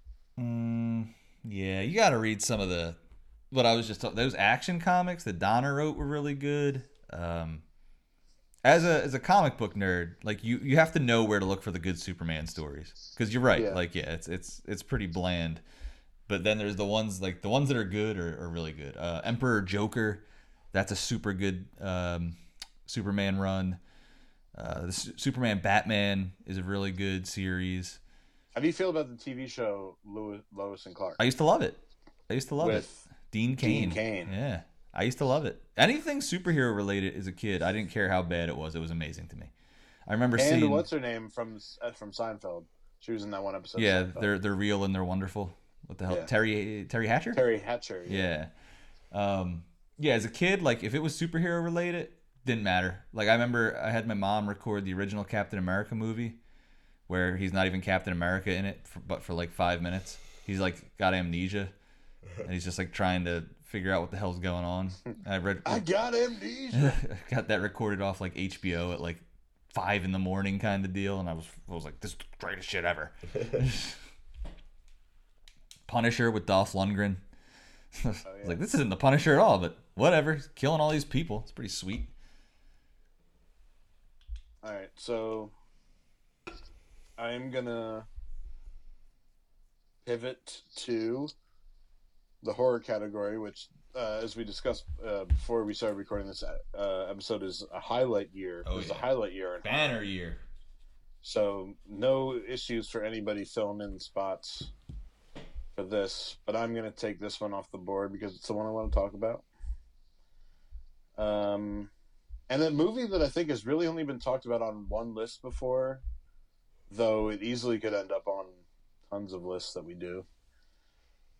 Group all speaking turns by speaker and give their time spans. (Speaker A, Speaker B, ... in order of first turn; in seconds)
Speaker A: 0.4-3.0, 3.5-7.6, 8.6-15.6, 16.3-23.8, 24.5-28.0, 31.2-39.5, 40.1-40.9, 43.8-47.4, 48.1-48.5, 49.1-56.4, 57.1-61.7, 62.4-65.9, 66.7-74.0, 75.9-77.2, 77.9-82.1, 98.7-99.1, 99.6-100.4
Speaker B: 28.6-31.2, 32.6-33.1, 33.6-34.3, 40.4-44.3, 47.3-48.2, 65.7-67.0, 78.2-78.6, 84.6-85.5, 87.2-88.1, 90.0-91.3, 92.4-99.9, 101.2-104.7, 105.8-109.5, 111.2-111.9, 112.5-116.0, 116.9-120.3